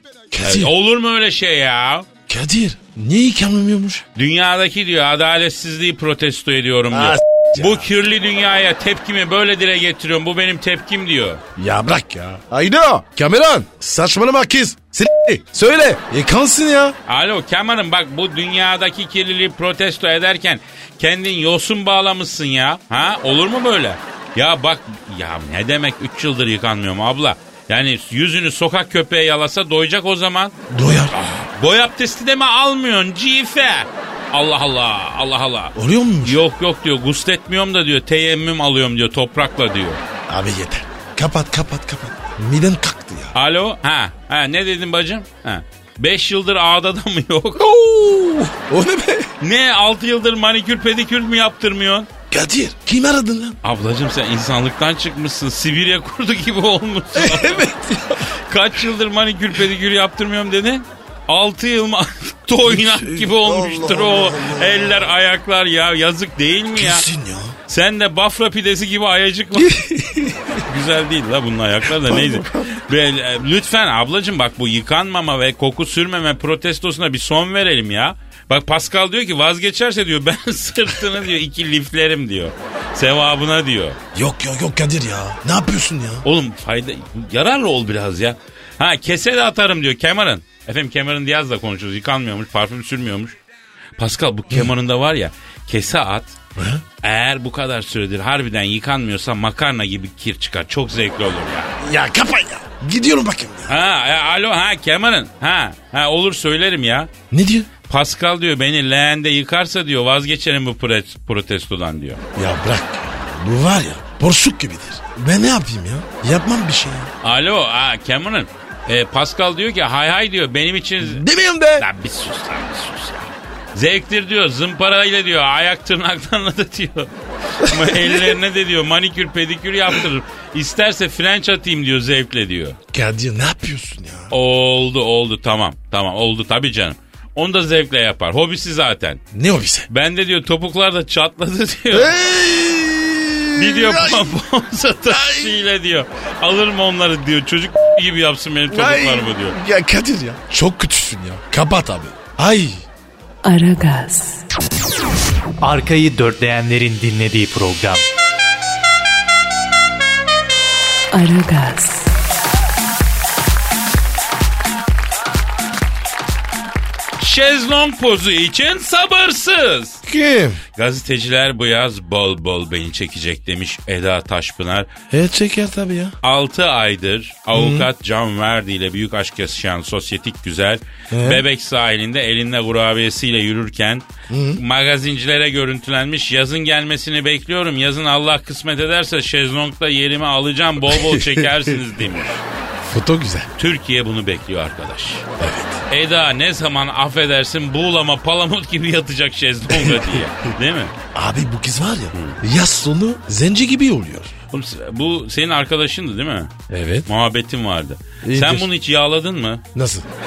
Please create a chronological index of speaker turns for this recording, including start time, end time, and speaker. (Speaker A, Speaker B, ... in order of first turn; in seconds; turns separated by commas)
Speaker A: 0.3-0.7, Speaker B: 0.4-2.1, Speaker A: 2.3-4.0, Speaker B: 4.1-11.4, Speaker A: 6.9-7.9, Speaker A: 11.6-16.9, Speaker B: 17.1-30.5, Speaker A: 30.7-31.1, Speaker B: 31.1-40.0, Speaker A: 35.7-36.4, Speaker A: 40.3-43.3, Speaker B: 43.3-47.6, Speaker A: 47.5-49.3, Speaker B: 49.4-52.1, Speaker A: 52.3-53.6, Speaker B: 53.6-57.7, Speaker A: 57.1-58.3, Speaker B: 58.5-67.0, Speaker A: 62.6-65.1, Speaker A: 66.7-67.5, Speaker B: 67.7-69.8, Speaker A: 69.5-70.6, Speaker B: 70.6-84.0, Speaker A: 71.9-72.8, Speaker A: 84.1-86.2, Speaker B: 86.2-93.4, Speaker B: 94.0-96.3, Speaker A: 96.5-96.8, Speaker B: 97.0-101.8, Speaker A: 101.8-103.7, Speaker B: 103.7-107.1, Speaker A: 107.3-107.7, Speaker B: 107.9-112.2, Speaker A: 112.3-117.1, Speaker B: 117.2-121.2, Speaker A: 121.0-121.8, Speaker B: 121.8-132.8, Speaker A: 127.7-128.3, Speaker A: 132.9-134.3, Speaker B: 134.3-139.2, Speaker A: 139.3-139.9, Speaker B: 139.9-142.1, Speaker A: 141.9-144.4, Speaker B: 143.6-149.6, Speaker A: 145.1-145.5, Speaker A: 148.7-152.8, Speaker C: 153.4-154.4, Speaker D: 155.6-158.0, Speaker C: 161.1-162.1, Speaker B: 167.2-170.0, Speaker A: 170.0-170.6, Speaker B: 170.8-174.9, Speaker A: 175.1-176.1, Speaker B: 176.2-192.3, Speaker A: 177.5-177.9, Speaker A: 181.1-181.4, Speaker A: 184.3-184.6, Speaker A: 190.9-191.7, Speaker A: 192.8-193.5, Speaker B: 193.6-195.3, Speaker A: 195.4-195.8, Speaker B: 195.9-200.9, Speaker A: 199.7-200.2, Speaker A: 201.1-204.3, Speaker B: 202.1-202.4, Speaker B: 204.5-206.5, Speaker A: 206.7-207.1, Speaker B: 207.1-209.6, Speaker A: 208.2-208.7, Speaker A: 209.7-210.1